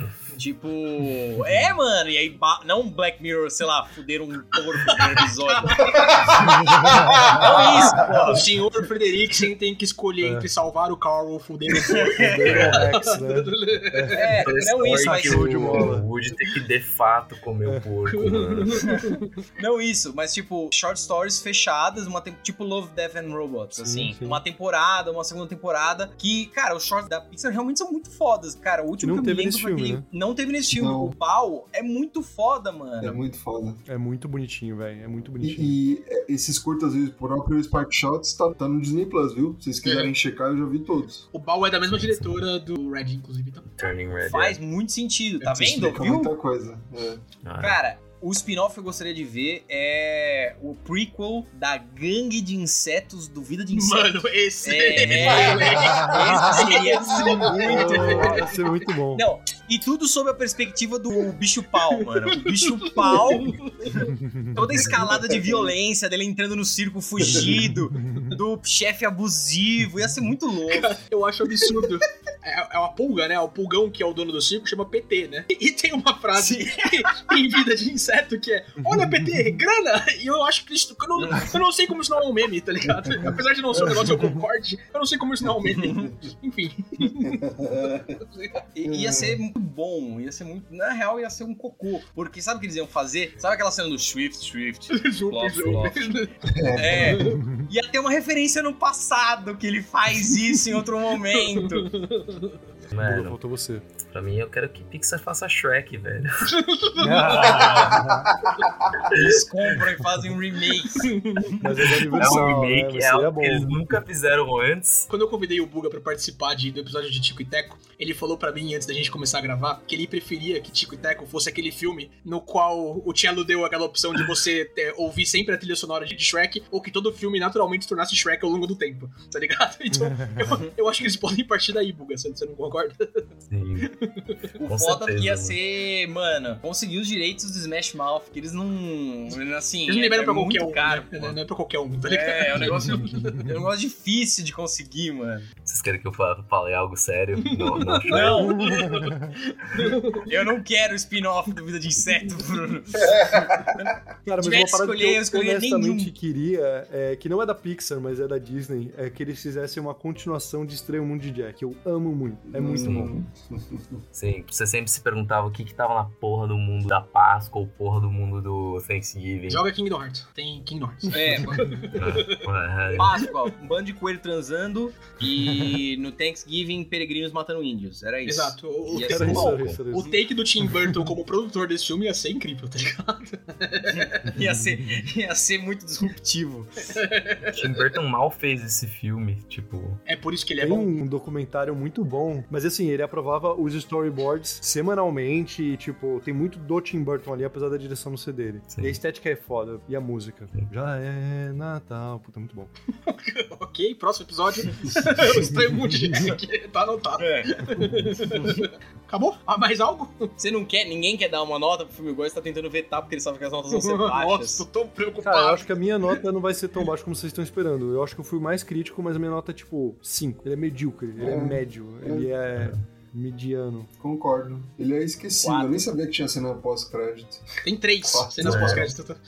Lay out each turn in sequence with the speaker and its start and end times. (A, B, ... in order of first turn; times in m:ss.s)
0:00.3-0:06.5 A
0:04.8-0:05.9 B
0:05.8-0:08.0 C
0:06.8-0:07.7 D
0:07.3-0:08.4 A
0:07.9-0:14.4 B
0:10.2-0:10.5 D
0:11.8-0:12.7 A
0:12.2-0:16.1 D
0:12.5-0:12.8 E
0:14.1-0:15.9 A
0:14.4-0:19.0 E
0:17.6-0:17.9 D
0:18.1-0:19.3 B
0:19.6-0:33.2 A
0:23.7-0:24.4 D
0:29.0-0:30.0 D
0:30.7-0:31.1 C
0:33.0-0:33.8 C
0:33.9-0:35.8 D
0:35.4-0:41.2 C
0:39.8-0:40.1 B
0:41.3-0:43.7 B
0:42.0-0:42.4 E
0:43.7-0:44.6 E
0:44.2-0:46.3 A
0:45.4-0:45.7 B
0:45.6-0:47.2 C
0:47.4-0:47.8 E
0:47.6-0:58.5 A
0:53.7-0:58.9 B
0:55.0-0:55.7 E
0:55.8-0:59.2 D
0:57.7-0:58.2 C
0:59.1-1:11.0 A
1:02.0-1:04.0 B
1:04.0-1:04.9 D
1:04.8-1:05.7 C
1:07.2-1:08.4 D
1:10.7-1:27.5 B
1:16.3-1:17.4 A
1:18.8-1:19.4 D
1:21.2-1:21.5 A
1:23.0-1:23.9 C
1:24.0-1:24.4 D
1:25.7-1:26.1 A
1:27.2-1:28.2 C
1:28.2-1:28.5 B
1:28.8-1:36.1 A
1:28.8-1:29.4 C
1:34.9-1:37.4 B
1:35.6-1:35.9 E
1:36.5-1:37.3 C
1:36.7-1:41.9 A
1:37.3-1:37.6 D
1:41.3-1:42.6 B
1:42.9-1:43.4 E
1:43.0-1:43.9 D
1:44.0-1:46.5 E
1:46.4-1:47.9 B
1:47.0-1:48.3 D
1:47.2-1:48.0 A
1:47.4-1:47.8 E
1:48.2-1:48.9 C
1:49.0-1:49.4 E
1:49.1-1:52.0 A
1:50.9-1:52.0 B
1:51.6-1:53.8 D
1:52.1-1:55.1 E
1:55.1-2:13.3 B
2:10.1-2:10.4 D
2:13.5-2:13.9 E
2:13.8-2:14.4 B
2:14.5-2:21.4 A
2:14.6-2:15.6 E
2:19.9-2:23.5 B
2:22.0-2:25.5 A
2:25.6-2:28.5 E
2:27.4-2:30.3 B
2:28.0-2:28.6 A
2:28.4-2:29.3 D
2:30.1-2:36.1 A
2:33.0-2:34.0 C
2:34.2-2:43.1 D
2:42.5-2:44.0 C
2:42.8-2:43.1 E
2:44.1-2:49.6 E
2:49.5-2:52.4 B
2:51.1-2:52.0 A
2:52.0-2:53.2 E
2:53.0-3:00.2 A
2:53.0-2:53.3 B
2:58.2-3:04.1 B
2:59.1-2:59.8 E
2:59.1-3:00.1 D
3:03.9-3:07.0 A
3:04.3-3:05.0 D
3:06.9-3:07.9 B
3:07.5-3:10.0 E
3:10.0-3:10.9 B
3:10.6-3:22.7 D
3:18.7-3:19.0 E
3:23.0-3:30.3 B
3:27.2-3:27.5 A
3:27.8-3:28.1 D
3:30.4-3:34.6 A
3:33.7-3:36.2 B
3:35.2-3:43.9 D
3:41.2-3:42.3 C
3:44.0-3:47.5 C
3:45.4-3:45.9 A
3:47.6-3:49.2 B
3:48.0-3:48.9 C
3:48.4-3:48.9 E